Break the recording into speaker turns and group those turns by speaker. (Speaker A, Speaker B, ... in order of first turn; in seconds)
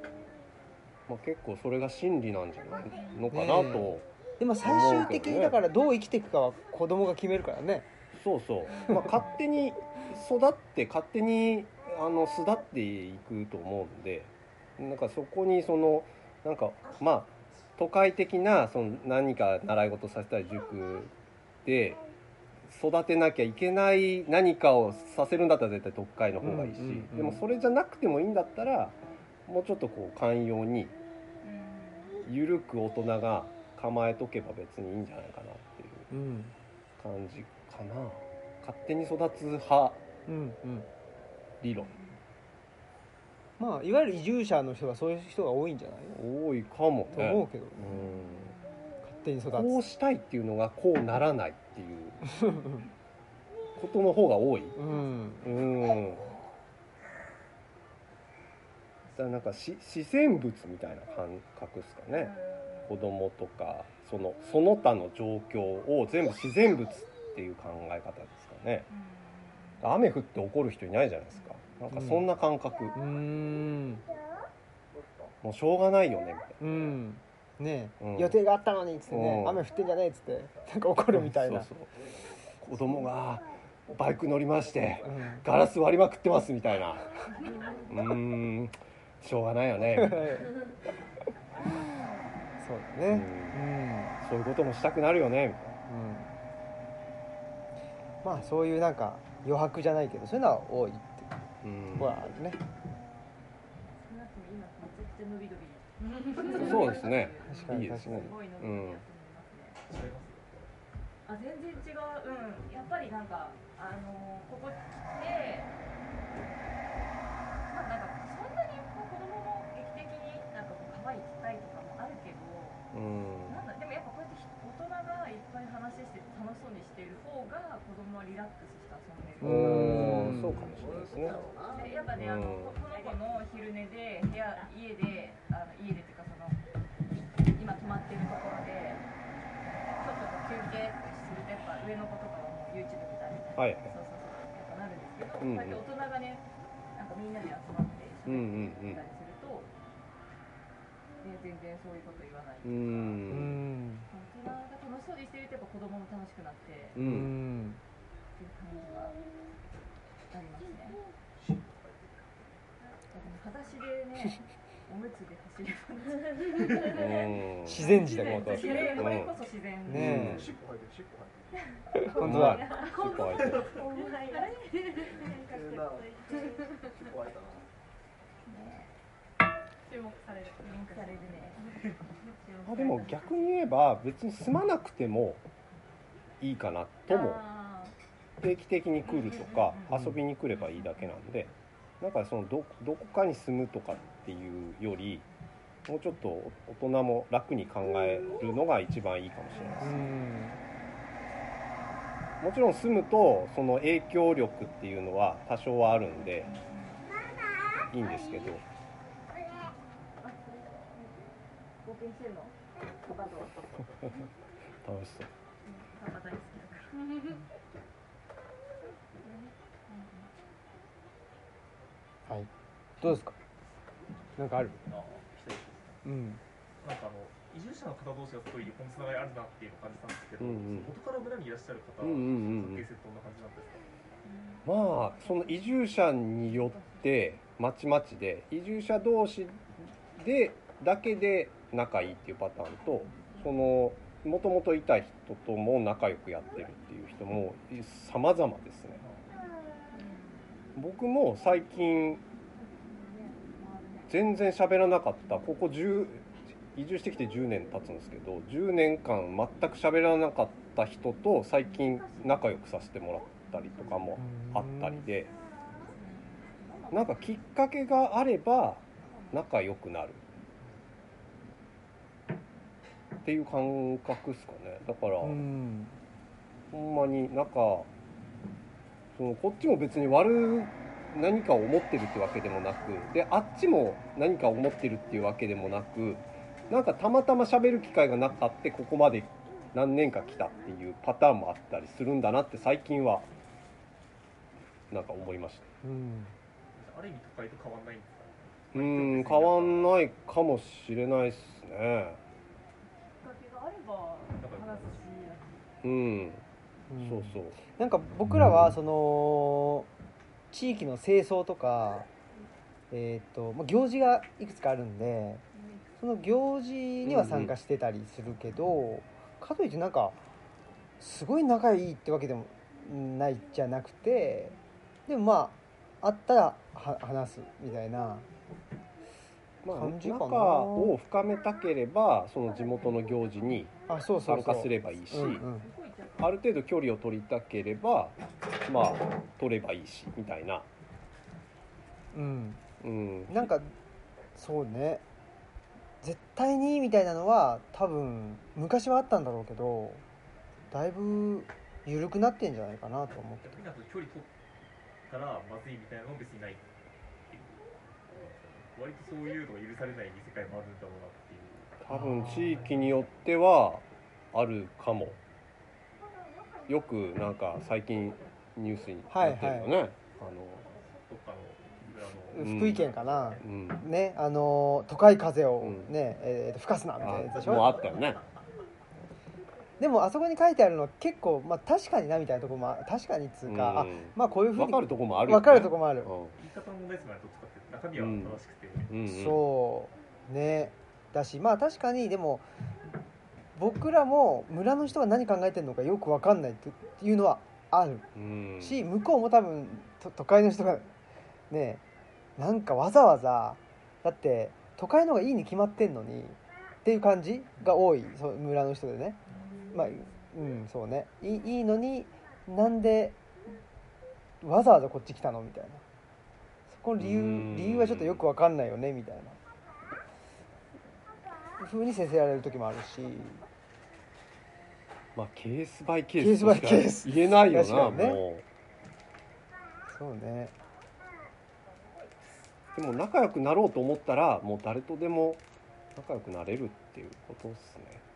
Speaker A: 1.1-4.1, 4.6-5.6, 8.1-21.1, 21.6-22.0, 22.7-28.9, 29.5-30.9, 32.2-36.1, 37.0-40.0, 41.6-41.9, 46.1-48.5, 49.5-52.3, 53.8-54.8, 55.4-56.3, 59.1-62.3, 62.9-68.9, 69.8-73.0, 75.4-76.9, 78.0-78.3, 79.1-79.6, 81.1-81.9, 82.6-87.1, 87.9-90.4, 93.1-93.7, 94.2-95.8, 101.6-102.2, 106.5-109.0, 122.9-123.6, 129.4-131.5, 132.1-132.8, 143.6-143.9, 145.4-145.8, 148.2-149.0, 152.6-153.6, 156.9-157.3, 166.8-169.3, 169.9-170.5, 172.2-173.8, 182.6-185.4, 186.4-187.4, 188.4-195.2, 195.8-200.1, 202.4-206.5, 207.9-208.6, 214.8-215.3, 230.4-230.9, 232.0-232.8, 234.6-249.0, 250.8-252.2, 254.1-265.3, 266.9-270.2, 273.2-275.4, 276.7-277.9, 279.1-293.3, 294.9-295.7, 298.7-302.2, 305.8-306.4, 307.0-307.6, 317.0-317.5, 329.6-333.7, 334.2-335.4, 336.2-340.7, 342.8-343.5, 361.8-365.2, 366.7-370.6, 372.3-372.9, 373.4-373.8, 375.6-375.9, 377.0-378.2, 383.4-386.3, 387.9-389.4, 398.1-398.8, 417.0-418.2, 425.1-428.4, 432.7-435.4, 435.9-438.0
Speaker B: 2.9-3.3, 8.7-9.2, 31.4-32.2, 41.7-42.1, 47.9-48.9, 54.8-56.4, 59.1-59.4, 62.1-63.0, 68.9-69.9, 71.3-71.8, 87.4-87.8, 104.0-109.8, 111.2-115.7, 117.7-122.8, 123.5-130.3, 131.7-136.6, 137.4-139.0, 139.9-149.7, 151.2-153.4, 154.1-157.0, 158.3-159.2, 160.3-161.0, 163.1-167.4, 168.1-170.4, 178.4-178.9, 180.6-181.6, 182.8-183.2, 187.1-187.9, 189.2-189.8, 206.4-207.0, 210.2-211.2, 211.8-214.2, 215.6-217.1, 219.2-220.3, 234.2-235.7, 236.4-237.1, 243.1-243.5, 249.9-250.5, 252.9-254.1, 261.8-262.2, 265.8-267.4, 269.1-269.4, 303.2-305.6, 335.4-336.4, 409.4-409.9
Speaker C: 3.3-7.8, 26.4-27.4, 36.1-36.5, 40.3-40.9, 43.6-46.2, 47.1-47.9, 49.0-49.8, 52.3-52.8, 54.7-55.4, 71.9-72.3, 72.9-74.0, 76.6-81.7, 85.0-85.4, 89.9-90.6, 92.6-94.2, 95.9-96.3, 98.2-101.3, 102.0-102.6, 107.4-108.3, 129.4-130.7, 153.3-154.1, 156.9-157.8, 167.6-168.8, 169.8-170.4, 171.9-172.6, 189.9-190.2, 199.8-200.6, 223.0-223.3, 224.4-224.8, 226.0-226.4, 264.2-265.1, 275.2-276.0, 295.8-296.3, 306.9-309.9, 310.5-312.1, 312.9-315.4, 316.0-320.2, 321.0-324.5, 325.1-328.3, 329.7-330.9, 333.9-335.7, 342.1-342.6, 343.3-343.7, 344.4-345.0, 346.0-350.0, 350.7-353.6, 361.9-362.6, 369.1-369.7, 372.3-377.9, 379.8-386.1, 389.1-392.4, 393.6-398.1, 398.6-400.9, 401.5-401.8, 402.4-409.2, 409.7-413.2, 414.4-415.8, 416.7-419.4, 421.6-423.4, 426.2-428.2, 429.9-430.5
Speaker D: 74.9-75.3, 81.9-82.9, 84.5-85.1, 130.6-132.1, 161.3-162.5, 170.2-171.6, 173.4-173.7, 175.0-177.7
Speaker E: 106.2-106.5, 132.9-133.2, 167.8-169.2, 172.1-176.9, 179.8-183.2
Speaker F: 109.9-110.7, 224.8-226.0, 226.8-233.9, 249.0-249.3, 296.7-299.9, 304.4-305.1, 353.4-354.3, 355.1-356.7, 357.3-362.9, 370.5-373.4, 386.3-388.9, 409.3-409.6